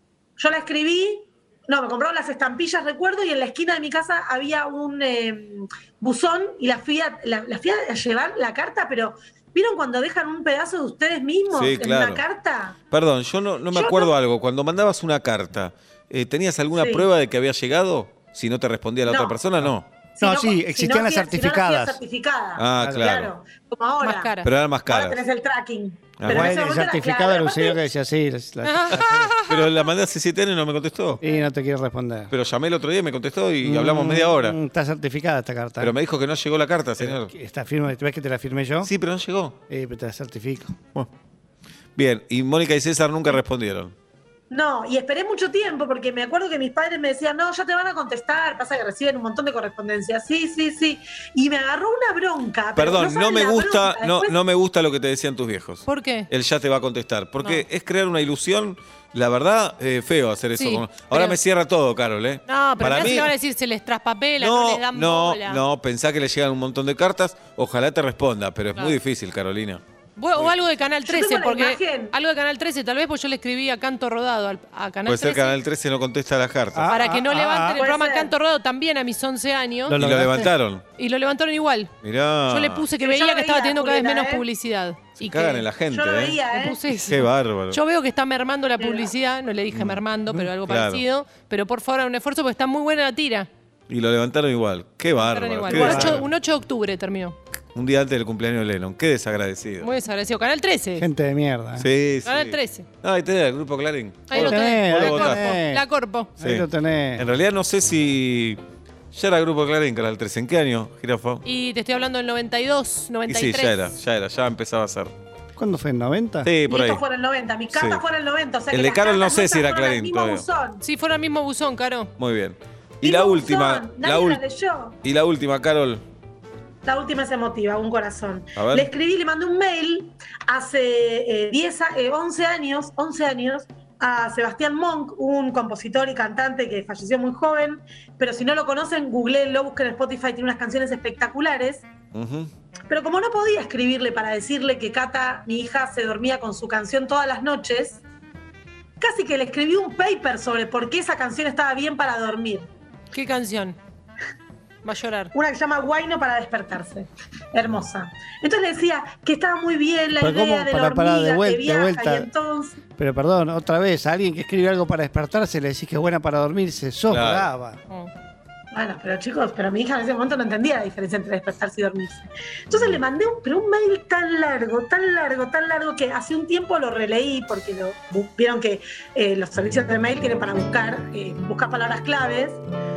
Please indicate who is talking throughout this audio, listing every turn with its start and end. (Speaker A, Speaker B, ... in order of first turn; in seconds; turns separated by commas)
Speaker A: 0.4-12.8, Speaker B: 11.5-12.2, Speaker B: 12.9-19.9, Speaker A: 13.7-14.1, Speaker A: 16.7-17.1, Speaker A: 19.1-19.4, Speaker A: 20.1-24.3, Speaker C: 20.2-22.0, Speaker B: 22.6-23.3, Speaker C: 22.8-23.1, Speaker D: 24.0-24.5, Speaker B: 24.4-25.2, Speaker A: 24.9-27.8, Speaker B: 26.2-26.5, Speaker C: 26.3-29.3, Speaker D: 28.6-29.8, Speaker B: 29.5-31.2, Speaker C: 31.2-32.3, Speaker B: 32.3-34.5, Speaker C: 33.6-35.9, Speaker B: 35.8-37.3, Speaker C: 37.0-38.9, Speaker B: 38.8-39.6, Speaker C: 39.7-40.8, Speaker B: 42.0-43.9, Speaker A: 44.5-54.3, Speaker B: 52.8-63.3, Speaker D: 55.9-56.3, Speaker D: 60.5-61.4, Speaker D: 62.5-65.6, Speaker B: 64.4-69.8, Speaker D: 70.2-75.6, Speaker A: 71.0-72.1, Speaker B: 75.0-76.8, Speaker C: 76.7-77.8, Speaker D: 76.8-80.0, Speaker A: 77.7-78.3, Speaker C: 79.9-80.5, Speaker B: 80.0-80.8, Speaker D: 81.0-81.9, Speaker B: 82.0-82.9, Speaker D: 82.5-85.7, Speaker A: 83.0-84.4, Speaker B: 85.1-86.4, Speaker A: 85.9-86.8, Speaker D: 86.5-93.5, Speaker B: 87.1-87.8, Speaker A: 88.8-89.1, Speaker B: 89.7-90.0, Speaker B: 90.7-91.0, Speaker B: 93.9-96.2, Speaker D: 95.2-97.4, Speaker C: 95.7-96.3, Speaker B: 97.7-99.9, Speaker D: 99.8-101.1, Speaker C: 101.0-101.9, Speaker B: 101.8-105.5, Speaker D: 102.2-102.9, Speaker D: 104.3-106.4, Speaker C: 104.3-107.2, Speaker B: 106.4-106.7, Speaker B: 107.2-108.6, Speaker B: 109.1-111.4, Speaker D: 111.4-113.9, Speaker B: 113.3-115.1, Speaker C: 115.5-116.5, Speaker B: 116.4-117.0, Speaker A: 116.7-120.8, Speaker B: 117.7-118.0, Speaker B: 118.7-120.5, Speaker D: 120.8-122.1, Speaker B: 122.2-124.4, Speaker A: 123.0-125.0, Speaker B: 125.0-126.0, Speaker A: 126.8-141.9, Speaker B: 128.6-128.9, Speaker B: 142.1-142.5, Speaker A: 142.9-148.0, Speaker A: 149.0-152.7, Speaker D: 153.1-153.8, Speaker D: 154.8-155.3, Speaker A: 155.3-162.8, Speaker C: 160.2-162.3, Speaker C: 163.0-167.8, Speaker B: 167.1-167.5, Speaker A: 168.7-182.6